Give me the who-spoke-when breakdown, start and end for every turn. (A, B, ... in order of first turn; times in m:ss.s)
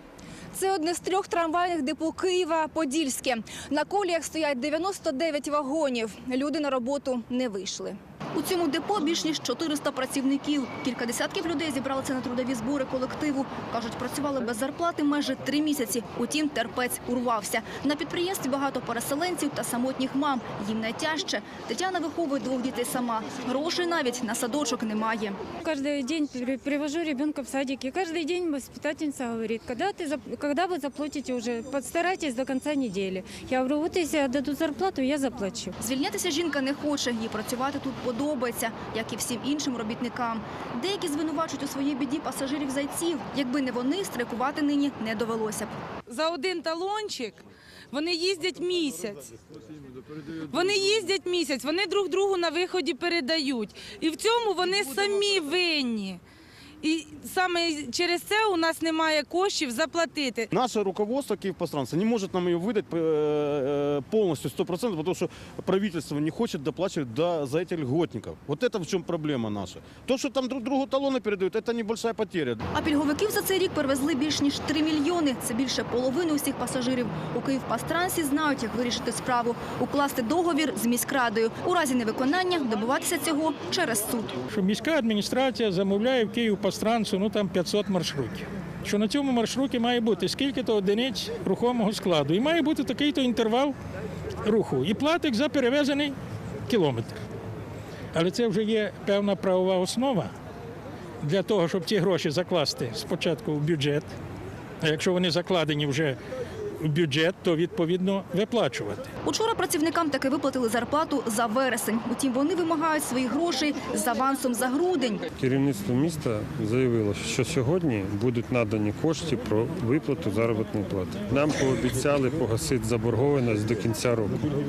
0:00.5-0:25.4 A
0:25.6-0:35.7 B
0:35.8-0:45.7 A
0:46.1-0:49.3 C
0:50.5-0:56.2 C
0:56.8-1:00.5 C
1:00.5-1:12.6 D
1:12.7-1:24.4 A
1:24.5-1:33.7 E
1:34.4-1:36.2 E
1:36.7-1:37.2 E
1:38.1-1:40.3 E
1:41.2-1:44.1 E
1:44.8-1:46.2 E
1:46.8-1:49.0 E
1:49.2-1:55.3 A
1:55.4-2:04.6 F